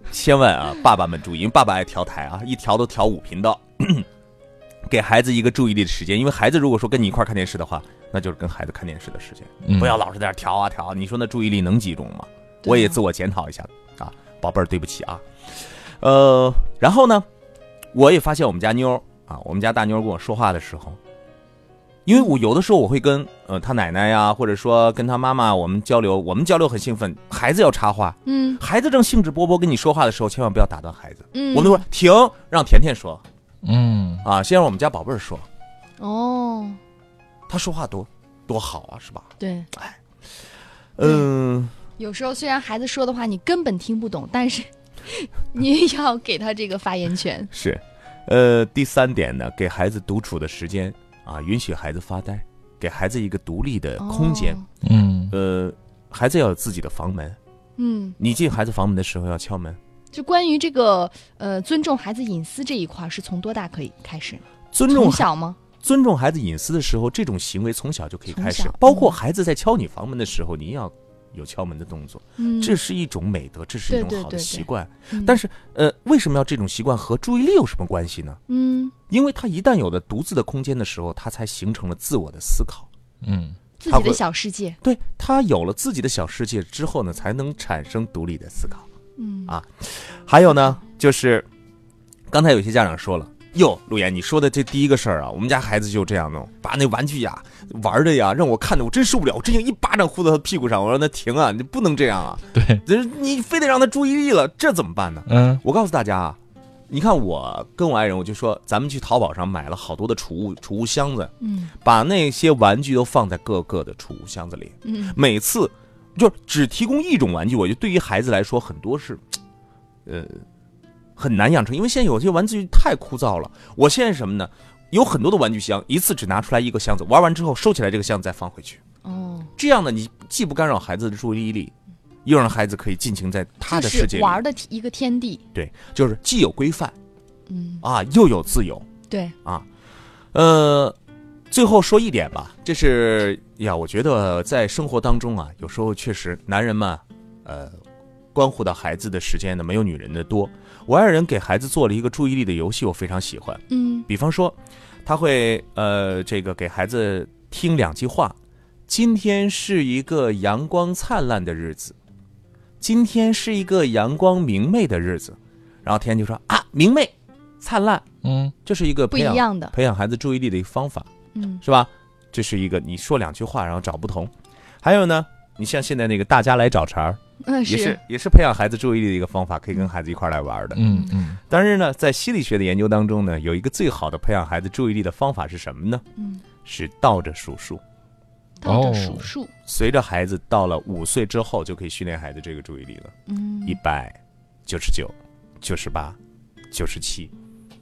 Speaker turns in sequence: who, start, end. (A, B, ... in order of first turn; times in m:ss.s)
0:00.1-0:04.0 A
0:04.9-0:17.2 A
0:09.6-0:10.0 B
0:12.6-0:13.0 C
0:17.9-0:21.0 A
0:22.0-0:33.2 A
0:28.2-0:28.6 C
0:31.3-0:31.8 C
0:33.6-0:34.2 B
0:34.2-0:35.4 A
0:36.0-0:36.8 C
0:37.5-0:40.0 A
0:39.4-0:39.7 C
0:41.0-0:41.7 A
0:42.0-0:47.5 C
0:47.5-0:54.6 A
0:54.0-0:54.6 C
0:54.8-0:55.3 B
0:55.3-0:57.4 A
0:57.8-0:58.2 C
0:58.2-0:59.8 A
1:00.1-1:05.6 C
1:04.7-1:05.3 A
1:05.8-1:18.4 A
1:08.3-1:09.2 C
1:12.4-1:12.8 C
1:13.9-1:15.4 C
1:18.5-1:18.9 C
1:19.1-1:22.9 A
1:23.2-1:23.6 B
1:23.8-1:24.8 C
1:23.9-1:24.2 A
1:24.8-1:28.8 A
1:29.2-1:29.5 C
1:29.5-1:31.4 A
1:32.3-1:46.4 A
1:42.5-1:42.8 B
1:45.3-1:45.6 B
1:46.9-1:59.2 A
1:51.4-1:51.7 C
1:54.8-1:55.2 C
2:00.0-2:00.4 A
2:01.2-2:08.8 A
2:09.0-2:09.5 C
2:09.6-2:11.7 A
2:12.2-2:14.4 A
2:13.6-2:15.4 C
2:15.5-2:16.9 A
2:17.5-2:17.8 C
2:17.8-2:18.9 A
2:20.3-2:21.0 A
2:21.5-2:27.8 A
2:28.3-2:38.4 A
2:33.7-2:34.1 C
2:38.9-2:42.0 A
2:42.8-2:48.0 A
2:48.2-2:48.5 B
2:48.6-2:51.1 A
2:49.1-2:49.7 C
2:51.3-2:51.6 C
2:51.6-2:54.3 A
2:54.8-3:00.8 A
2:57.4-2:58.0 C
3:00.7-3:01.4 B
3:01.5-3:06.0 A
3:06.2-3:06.4 C
3:06.6-3:07.8 A
3:08.6-3:09.5 C
3:08.6-3:09.3 B
3:09.7-3:16.2 A
3:13.3-3:13.8 C
3:16.7-3:17.3 A